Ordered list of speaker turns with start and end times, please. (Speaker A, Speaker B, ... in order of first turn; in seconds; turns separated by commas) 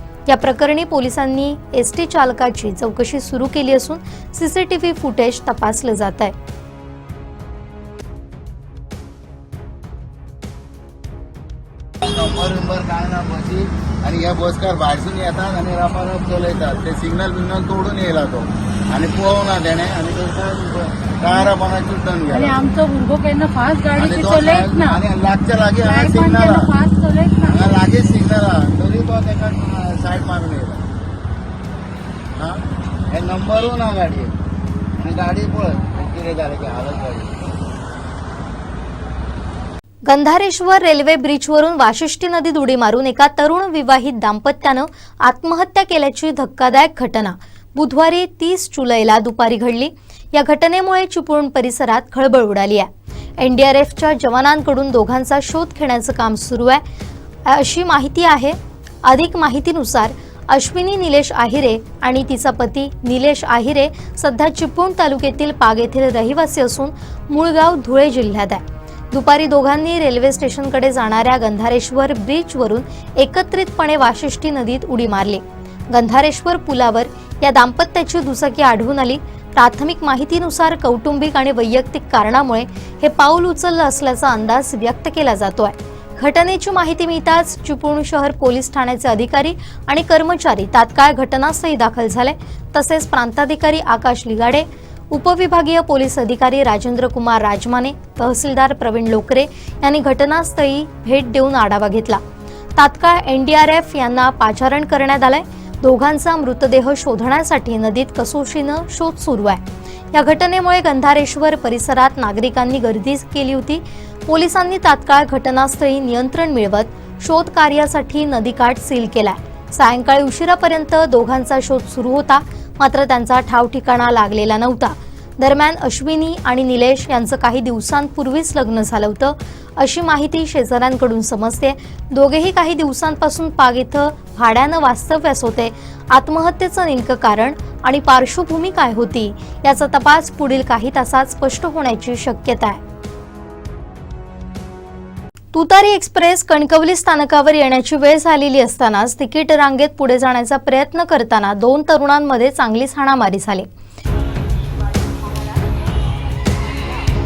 Speaker A: 0.3-6.3, Speaker B: 12.0-22.7, Speaker C: 22.3-25.0, Speaker B: 24.0-26.7, Speaker C: 25.8-27.8, Speaker B: 27.4-30.8, Speaker B: 33.1-34.3, Speaker B: 35.0-37.5, Speaker A: 40.1-56.8, Speaker A: 57.5-102.2, Speaker A: 102.8-142.8, Speaker A: 145.5-153.7